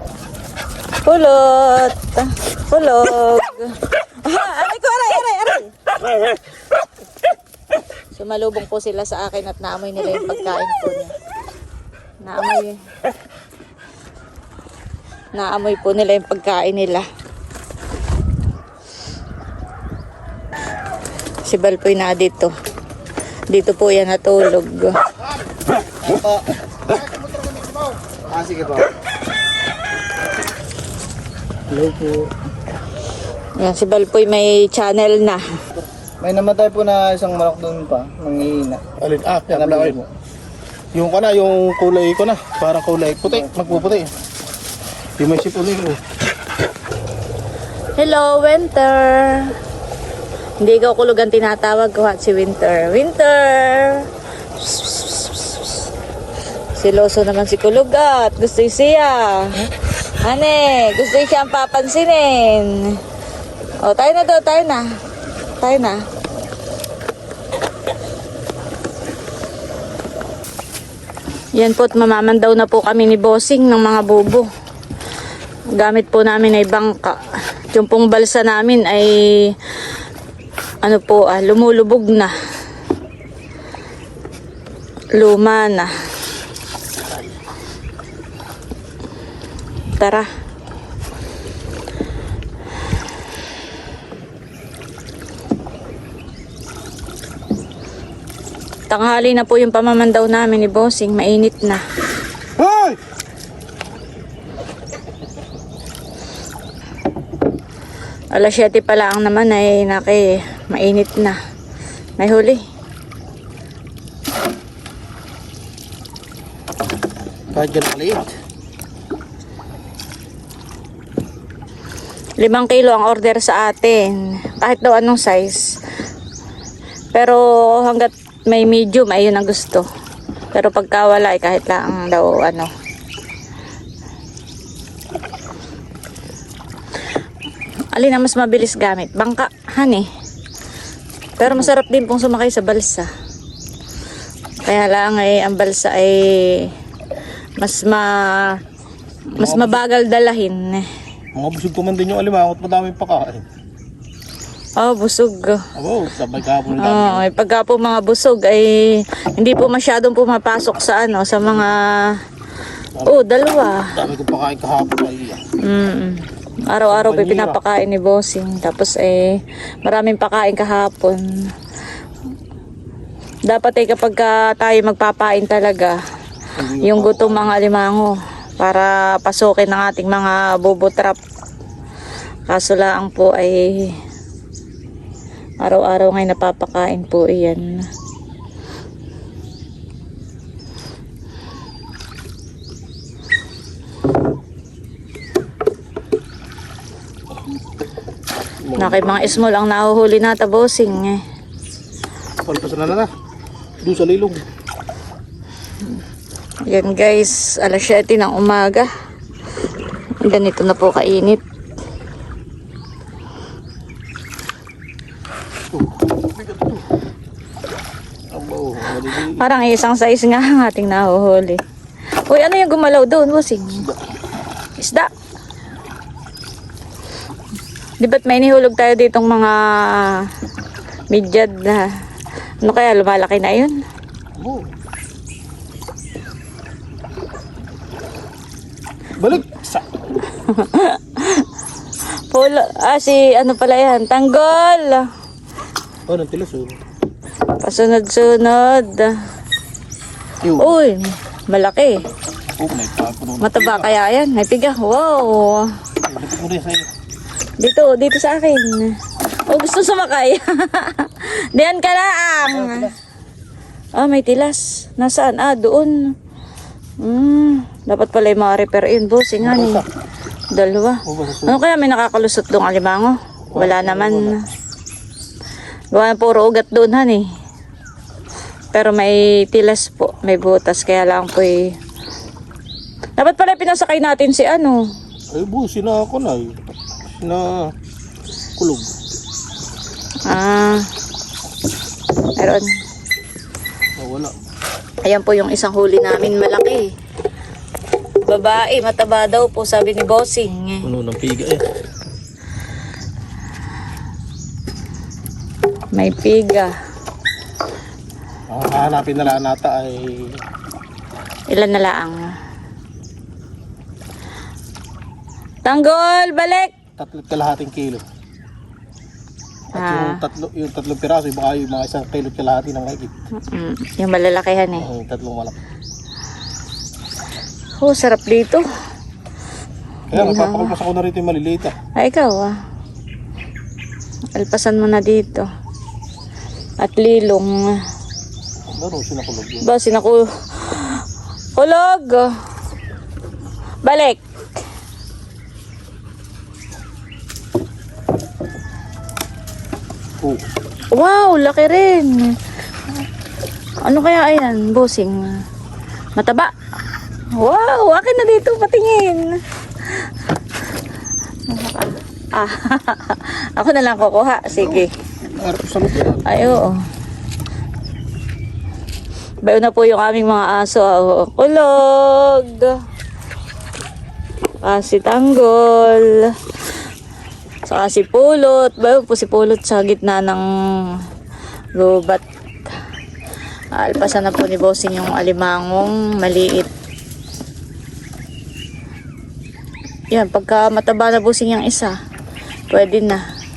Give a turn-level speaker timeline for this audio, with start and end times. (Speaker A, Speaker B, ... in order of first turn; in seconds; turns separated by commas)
Speaker A: 1.1-5.7, Speaker A: 8.2-11.2, Speaker A: 12.2-12.8, Speaker A: 15.3-17.1, Speaker A: 21.5-22.5, Speaker A: 23.5-24.9, Speaker B: 26.1-26.4, Speaker C: 26.9-28.0, Speaker B: 28.2-28.9, Speaker C: 31.7-32.3, Speaker A: 33.6-35.4, Speaker B: 36.2-38.8, Speaker C: 39.0-40.0, Speaker B: 39.5-40.0, Speaker C: 40.9-44.1, Speaker C: 45.2-46.0, Speaker A: 48.0-49.5, Speaker A: 50.6-54.0, Speaker A: 54.6-55.8, Speaker A: 56.8-59.7, Speaker A: 60.2-63.0, Speaker A: 63.8-64.8, Speaker A: 65.6-66.0, Speaker A: 71.6-74.5, Speaker A: 75.8-79.5, Speaker A: 80.8-82.3, Speaker A: 85.2-85.9, Speaker A: 90.0-90.3, Speaker A: 98.9-101.8, Speaker C: 102.6-103.0, Speaker A: 108.3-111.4, Speaker A: 112.2-112.6, Speaker C: 117.5-118.3, Speaker A: 122.4-125.8, Speaker A: 127.1-129.8, Speaker A: 130.5-132.7, Speaker A: 137.9-140.1, Speaker A: 141.4-143.1, Speaker A: 144.7-146.7, Speaker A: 147.6-148.6, Speaker A: 149.3-150.9, Speaker C: 149.4-149.8, Speaker C: 151.3-153.5, Speaker A: 154.8-155.6, Speaker C: 155.8-157.2, Speaker A: 156.8-162.1, Speaker A: 163.1-163.9, Speaker C: 163.9-165.4, Speaker A: 165.6-171.2, Speaker C: 166.9-167.6, Speaker A: 173.5-176.0, Speaker C: 176.6-177.6, Speaker A: 176.8-181.2, Speaker A: 182.5-183.9, Speaker A: 185.6-187.7, Speaker C: 198.6-199.4, Speaker A: 198.8-201.2, Speaker C: 202.4-203.1, Speaker C: 203.8-204.4, Speaker A: 206.7-208.9, Speaker A: 210.2-211.4, Speaker C: 215.7-216.9, Speaker C: 218.3-219.4, Speaker A: 219.3-221.6, Speaker A: 222.3-223.8, Speaker A: 224.8-225.1, Speaker A: 228.0-230.2, Speaker A: 231.1-231.9, Speaker A: 232.6-233.8, Speaker C: 234.4-234.7, Speaker C: 239.2-239.9, Speaker A: 240.4-241.4, Speaker A: 242.3-245.1, Speaker C: 246.1-246.8, Speaker A: 247.6-249.2, Speaker C: 250.4-250.8, Speaker A: 250.6-252.0, Speaker C: 252.6-253.9, Speaker A: 253.4-255.7, Speaker C: 256.1-256.9, Speaker A: 257.6-258.9, Speaker A: 259.5-262.9, Speaker C: 262.4-262.9, Speaker A: 264.0-266.1, Speaker A: 267.0-269.8, Speaker C: 269.4-269.9, Speaker A: 270.5-274.4, Speaker C: 271.1-271.6, Speaker C: 273.5-274.4, Speaker A: 275.9-277.2, Speaker A: 278.7-281.7, Speaker A: 283.2-284.9, Speaker C: 285.3-287.7, Speaker C: 288.6-288.9, Speaker A: 290.3-290.9, Speaker A: 292.4-292.7, Speaker C: 294.0-294.3, Speaker A: 295.0-296.9, Speaker A: 298.3-300.9, Speaker C: 300.8-301.6, Speaker A: 305.9-306.7, Speaker C: 308.5-310.4, Speaker A: 311.5-312.2, Speaker A: 315.7-316.7, Speaker C: 317.0-318.0, Speaker C: 319.7-323.1, Speaker A: 319.7-320.2, Speaker A: 323.5-324.9, Speaker C: 324.8-325.6, Speaker A: 327.8-328.6, Speaker C: 330.1-331.8, Speaker A: 330.1-330.7, Speaker A: 332.0-332.5, Speaker A: 334.4-335.5, Speaker A: 336.8-337.6, Speaker C: 338.8-339.6, Speaker A: 339.6-341.0, Speaker A: 341.6-342.3, Speaker A: 343.8-344.2, Speaker C: 350.2-350.5, Speaker A: 350.9-352.4, Speaker A: 353.9-355.2, Speaker A: 356.2-356.5, Speaker A: 357.4-359.3, Speaker A: 361.5-364.9, Speaker C: 364.5-366.6, Speaker A: 366.3-366.8, Speaker A: 369.4-372.8, Speaker A: 374.6-376.3, Speaker A: 377.7-380.4, Speaker A: 381.8-382.2, Speaker A: 383.7-386.7, Speaker A: 390.1-391.9, Speaker A: 392.7-393.2